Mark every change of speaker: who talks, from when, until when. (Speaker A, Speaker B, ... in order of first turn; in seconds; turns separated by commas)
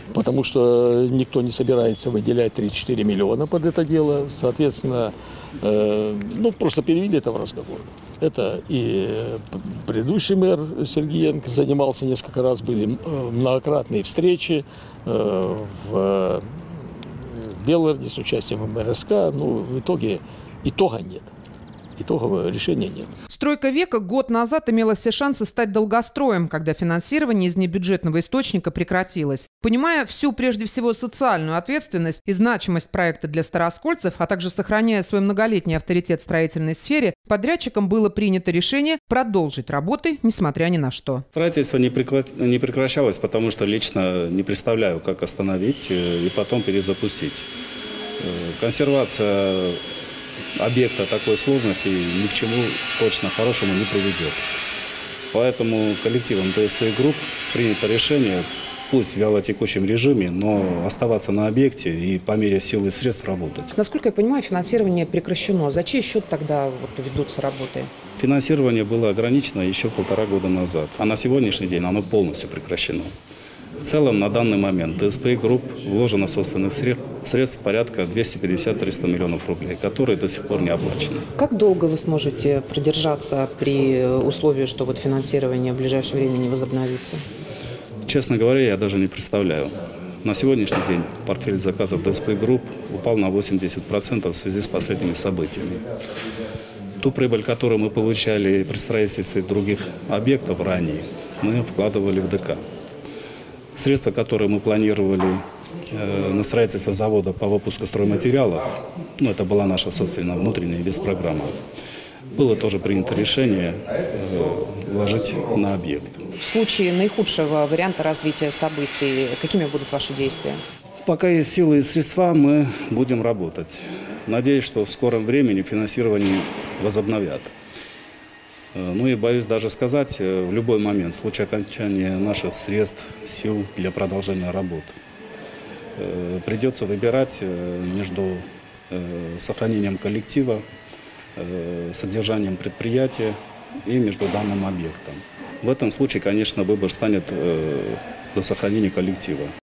Speaker A: 0.1-21.3, Speaker A: 22.0-23.1, Speaker B: 23.3-41.2, Speaker C: 41.3-47.5, Speaker C: 48.2-49.8, Speaker C: 50.6-54.4, Speaker C: 55.3-63.8, Speaker B: 63.8-67.9, Speaker C: 68.2-73.1, Speaker C: 73.8-81.3, Speaker B: 81.4-87.2, Speaker C: 88.0-95.8, Speaker C: 97.0-102.6, Speaker C: 103.8-111.5, Speaker C: 112.3-116.2, Speaker B: 116.3-120.6, Speaker C: 121.1-127.5, Speaker C: 128.7-134.9, Speaker C: 136.0-140.6, Speaker C: 141.4-149.5